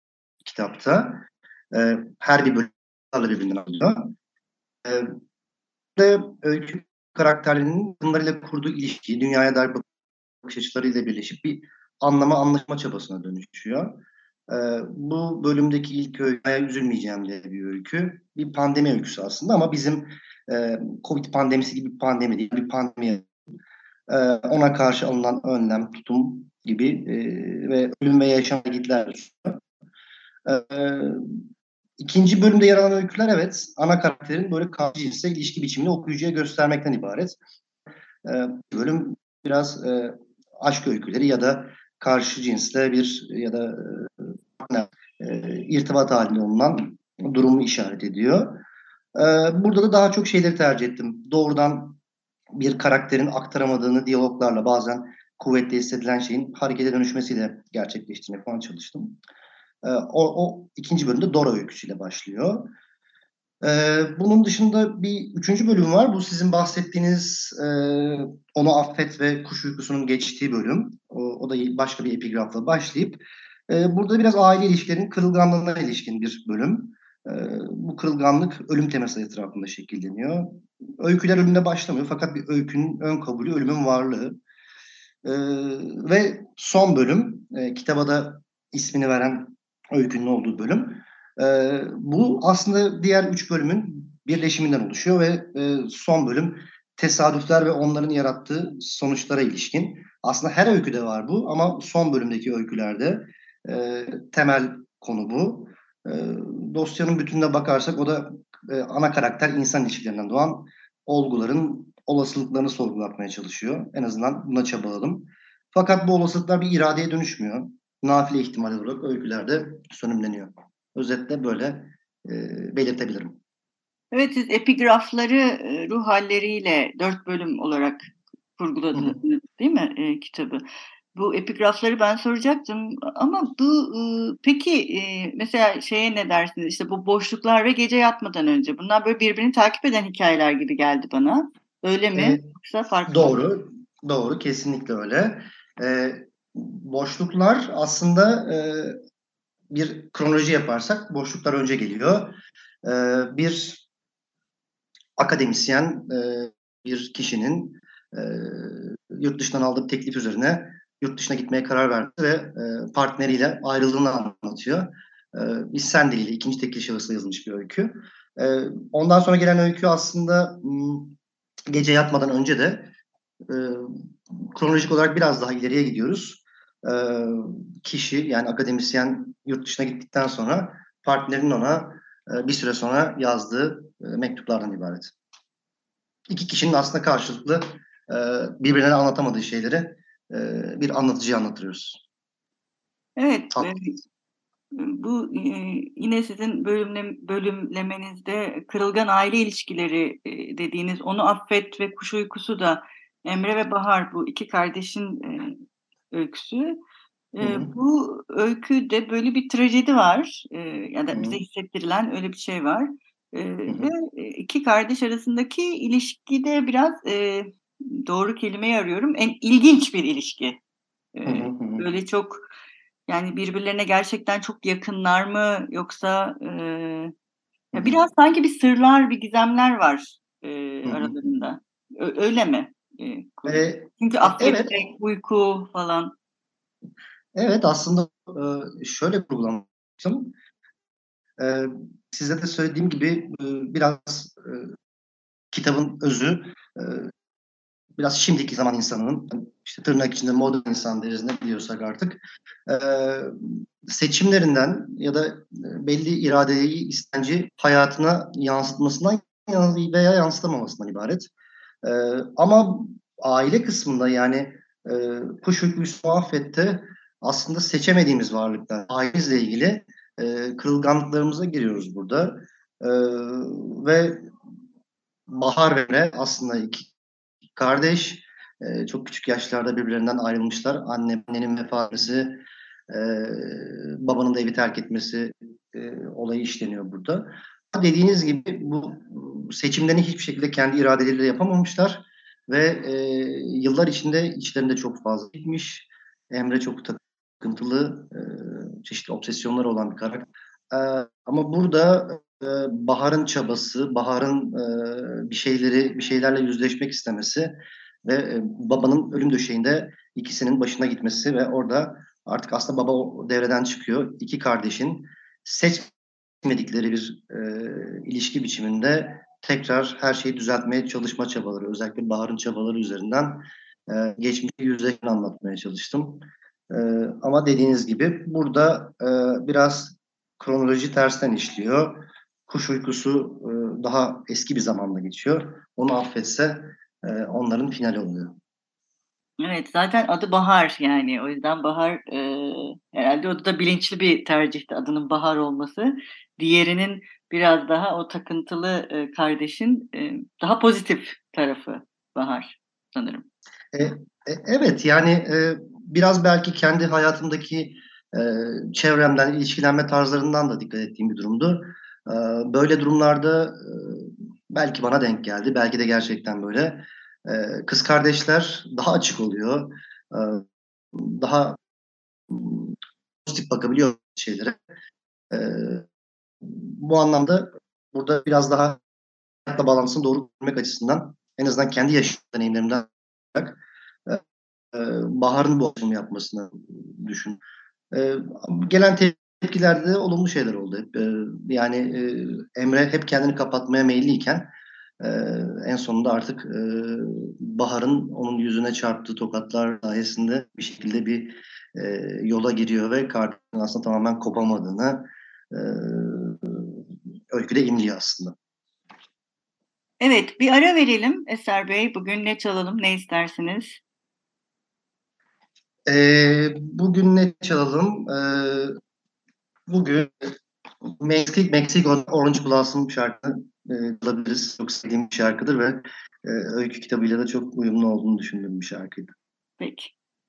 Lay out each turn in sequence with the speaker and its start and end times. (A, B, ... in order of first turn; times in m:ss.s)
0:00.4-0:04.1 A
0:04.8-0:05.1 A
0:06.0-0:09.8 A
0:10.4-0:23.3 A
0:24.1-0:29.6 A
0:30.4-0:31.4 A
0:32.0-0:37.4 A
0:38.2-0:48.6 A
0:49.2-0:52.0 A
0:52.5-0:59.2 A
0:59.8-1:02.7 A
1:03.6-1:24.4 A
1:25.2-2:03.4 A
2:04.1-2:10.6 B
2:11.1-2:23.4 B
2:22.1-2:22.4 A
2:23.1-2:29.0 A
2:29.7-2:33.8 A
2:35.2-2:51.2 A
2:51.7-2:52.9 A
2:53.5-3:05.1 A
3:06.3-3:12.0 A
3:13.2-3:14.0 B
3:14.7-3:25.6 B
3:26.1-3:26.8 B
3:27.3-3:40.6 B
3:27.4-3:27.7 A
3:31.1-3:31.4 A
3:33.7-3:33.9 A
3:41.1-3:42.5 B
3:41.2-3:41.8 A
3:43.1-3:47.1 B
3:47.7-3:48.0 A
3:47.7-3:56.1 B
3:50.8-3:51.2 A
3:53.4-3:54.8 A
3:57.3-4:00.3 A
4:01.4-4:04.7 A
4:05.5-4:07.1 A
4:08.0-4:21.3 A
4:21.8-4:34.2 A
4:35.3-4:36.9 A
4:37.6-5:15.9 A
5:16.4-5:38.3 A
5:39.4-5:53.2 B
5:53.7-6:10.4 A
6:10.9-6:11.6 A
6:12.3-6:12.7 A
6:13.2-6:14.6 A
6:15.3-6:15.9 A
6:16.4-6:18.8 A
6:19.5-6:24.2 A
6:24.7-6:27.4 A
6:27.9-6:34.5 A
6:35.0-6:46.8 A
6:47.3-6:48.3 A
6:50.0-6:53.8 B
6:55.9-6:58.8 A
6:59.7-7:00.3 A
7:01.0-7:09.1 A
7:09.6-7:09.9 B